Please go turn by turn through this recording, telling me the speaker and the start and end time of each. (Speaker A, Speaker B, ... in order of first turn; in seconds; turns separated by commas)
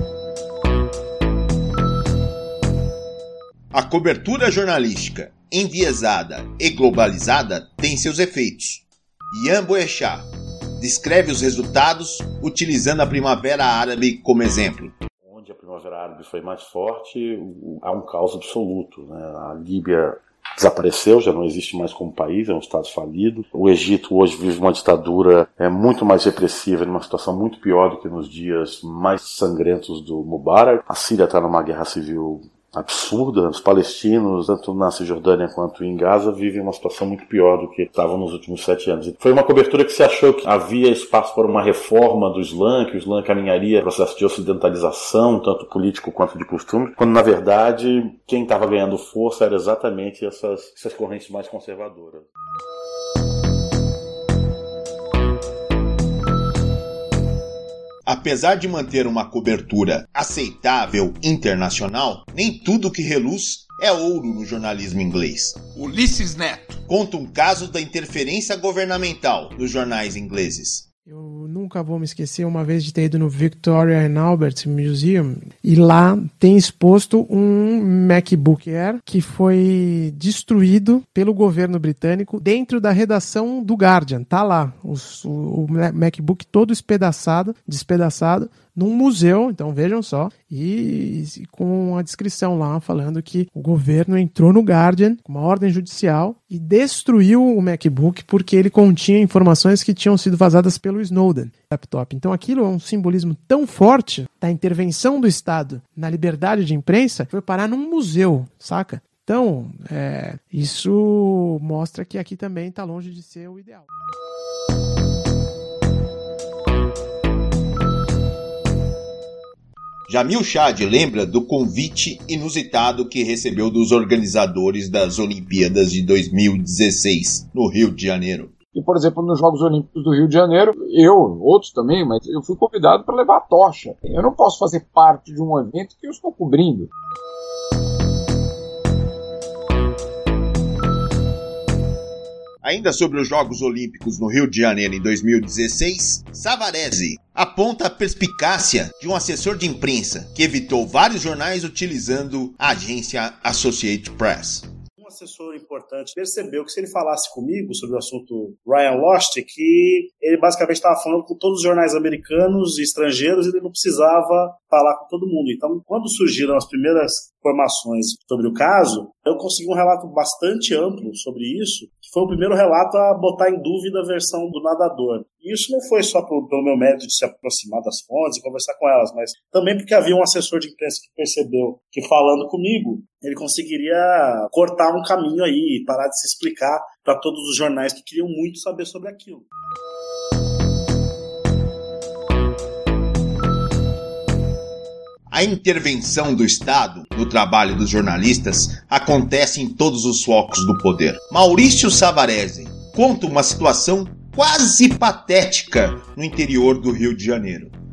Speaker A: 3.7-14.9, Speaker B: 15.2-52.3, Speaker A: 58.1-70.9, Speaker C: 71.1-113.9, Speaker A: 120.1-128.5, Speaker D: 128.7-136.9, Speaker A: 142.6-154.7, Speaker E: 155.0-189.5, Speaker A: 195.3-207.7